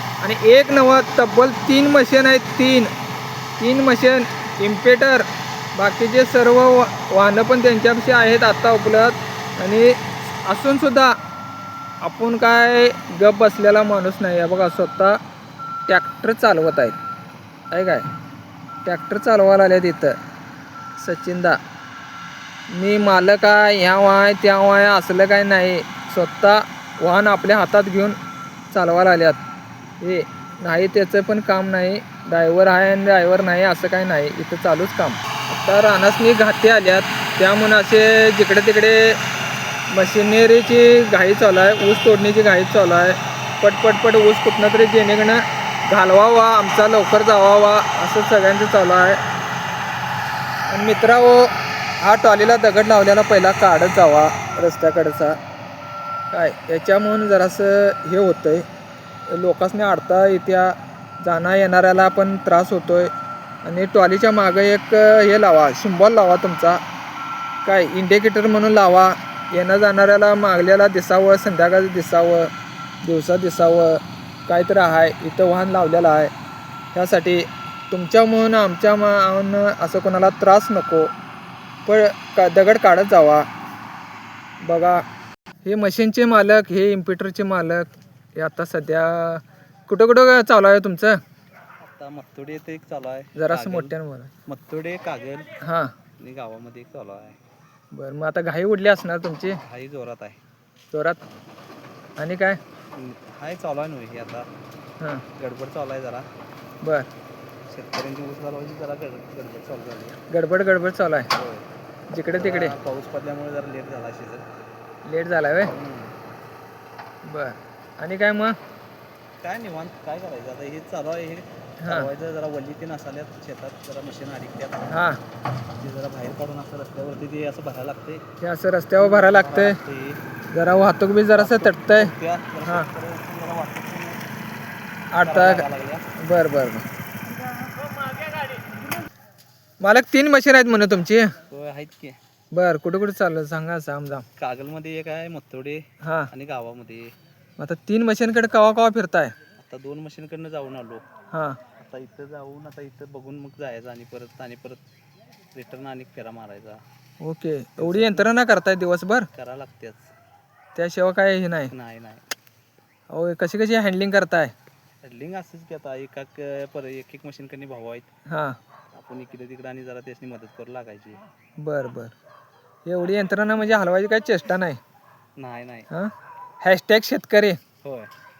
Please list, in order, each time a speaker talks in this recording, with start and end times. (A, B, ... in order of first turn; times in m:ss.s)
0:00.2-0:02.9 A
0:03.6-0:11.2 A
0:12.0-0:15.2 A
0:15.9-0:17.0 A
0:17.7-0:18.0 A
0:18.8-0:20.2 A
0:21.0-0:21.6 A
0:22.7-0:28.2 A
0:28.7-0:29.4 A
0:30.0-0:39.2 A
0:39.9-0:49.2 A
0:50.7-0:55.4 A
0:56.3-0:58.6 A
0:59.3-1:03.1 A
1:03.6-1:06.8 A
1:07.6-1:12.5 A
1:13.0-1:16.3 A
1:16.9-1:21.1 A
1:21.9-1:23.4 A
1:24.6-1:25.0 A
1:25.6-1:31.2 A
1:31.8-1:34.0 B
1:33.4-1:34.3 A
1:34.5-1:35.5 B
1:35.6-1:35.9 A
1:36.2-1:37.4 B
1:37.9-1:39.6 A
1:39.6-1:40.4 B
1:40.9-1:41.2 A
1:42.2-1:42.6 A
1:43.0-1:44.5 B
1:45.4-1:46.3 B
1:46.8-1:47.1 A
1:47.7-1:50.2 B
1:50.3-1:51.3 A
1:51.3-1:51.6 B
1:52.1-1:52.8 A
1:52.3-1:54.4 B
1:55.1-1:55.7 A
1:55.6-1:56.2 B
1:57.3-1:58.6 A
1:59.4-2:05.0 B
2:01.8-2:02.1 A
2:04.9-2:05.2 A
2:05.8-2:08.2 B
2:08.4-2:09.8 A
2:09.0-2:10.2 B
2:10.5-2:12.1 A
2:11.4-2:14.2 B
2:15.1-2:15.6 A
2:15.2-2:16.1 B
2:16.2-2:16.8 A
2:19.8-2:21.3 A
2:21.5-2:22.2 B
2:22.5-2:24.3 A
2:24.4-2:27.1 B
2:26.0-2:26.3 A
2:27.6-2:29.3 A
2:29.6-2:31.0 B
2:31.3-2:31.6 A
2:31.8-2:34.8 B
2:35.5-2:36.8 B
2:37.2-2:39.3 A
2:37.8-2:38.3 B
2:39.3-2:40.1 B
2:40.8-2:41.7 A
2:41.7-2:42.2 B
2:43.1-2:44.5 A
2:45.0-2:48.1 B
2:48.3-2:48.6 A
2:48.9-2:51.2 B
2:51.6-2:52.2 A
2:52.9-2:54.8 A
2:55.4-2:55.9 B
2:56.6-2:57.6 A
2:57.8-2:58.1 B